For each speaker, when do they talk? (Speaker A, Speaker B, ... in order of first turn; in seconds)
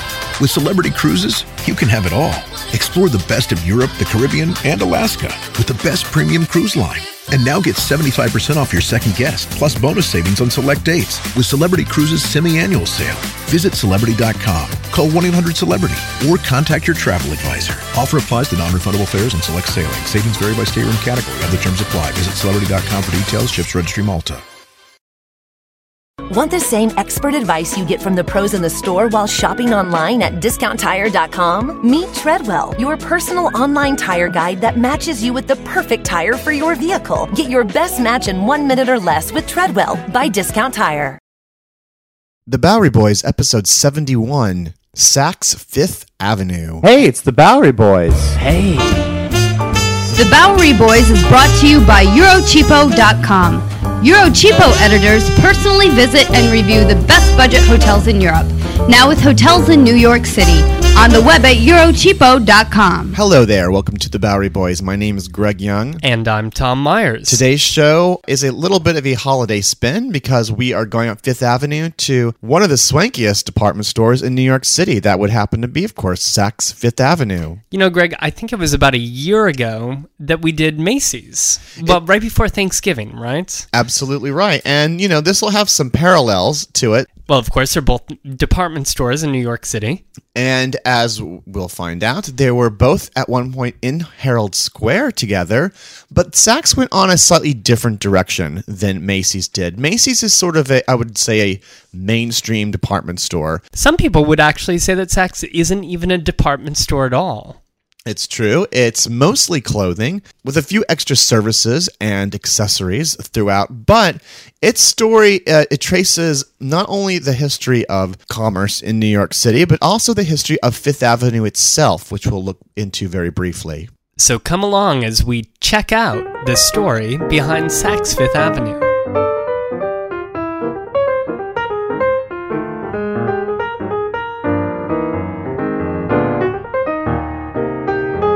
Speaker A: 0.4-24.4
Speaker B: 26.3-41.2
Speaker C: 42.5-46.9, 63.1-66.0, 67.3-77.6, 83.7-87.1, 90.3-103.6, 108.0-123.9
Speaker D: 46.8-49.0
Speaker E: 50.1-63.2
Speaker F: 66.0-67.4, 77.7-83.7, 87.3-90.0, 103.7-107.6, 124.2-128.9